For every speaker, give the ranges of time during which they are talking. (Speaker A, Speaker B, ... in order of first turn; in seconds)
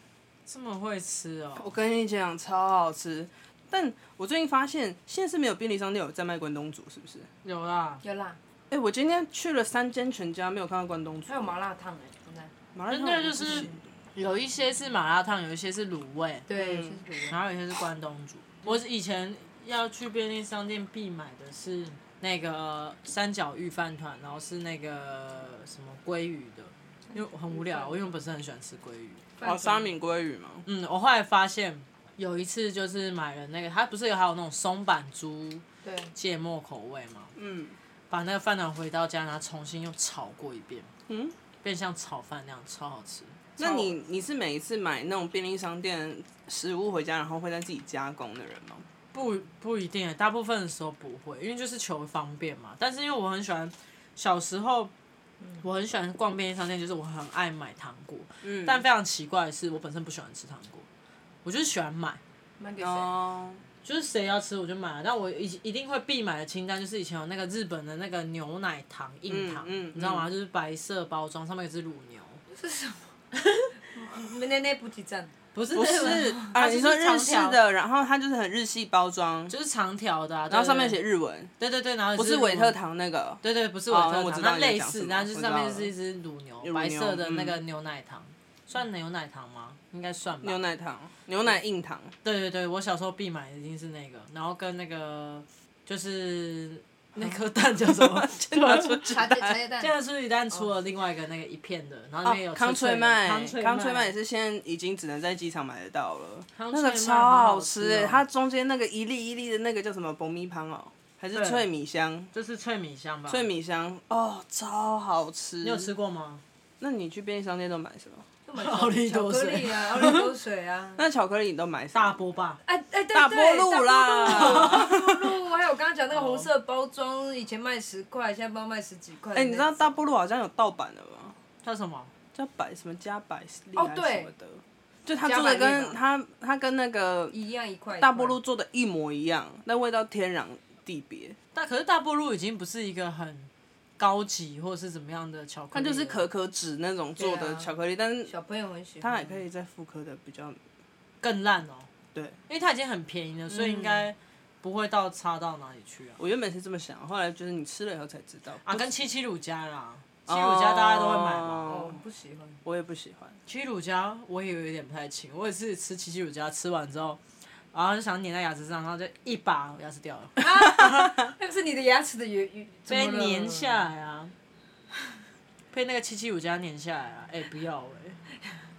Speaker A: 0.5-1.7, 7.4-8.0, 12.9-16.5, 17.2-29.2, 30.7-37.3, 38.1-40.9, 41.6-43.5, 49.1-54.9, 55.6-60.9, 61.4-62.2, 63.8-72.4, 73.3-73.7, 75.5-77.6, 79.5-81.0, 81.6-82.8, 83.4-90.6, 92.2-99.1, 99.8-104.1, 106.5-108.2, 111.3-111.7, 112.3-113.5, 115.6-116.4, 118.6-120.3, 121.9-122.6, 124.3-124.9, 126.1-126.5, 131.6-132.1, 141.6-146.3, 151.2-151.9, 152.5-156.2, 158.6-161.7, 163.5-167.2, 167.7-171.2, 172.9-174.3, 175.7-178.2
Speaker B: 1.6-7.3, 8.7-11.5, 12.7-13.8, 16.6-17.0, 29.4-30.7, 37.4-37.8, 41.1-41.4, 43.6-48.8, 58.4-58.8, 62.8-63.6, 69.3-70.3, 75.7-79.5, 80.5-81.5, 82.2-85.9, 86.6-87.6, 90.4-92.1, 97.8-99.6, 102.2-112.3, 113.3-115.9, 116.8-118.3, 121.0-122.2, 123.1-125.2, 129.3-131.4, 132.3-137.3, 138.0-141.4, 145.7-148.3, 149.0-150.6, 153.5-154.1, 156.2-158.9, 160.3-162.0, 162.6-163.4
Speaker C: 8.0-8.4, 11.3-12.5, 16.5-17.4, 27.1-28.1, 29.4-29.9, 35.8-36.1, 43.6-43.9, 62.6-63.1, 72.5-73.1, 73.9-75.3, 75.9-76.5, 99.0-99.9, 118.5-121.0, 122.7-129.9, 133.8-134.3, 135.2-136.0, 137.3-138.4, 147.2-147.7, 148.3-149.4, 161.7-162.6, 170.4-173.9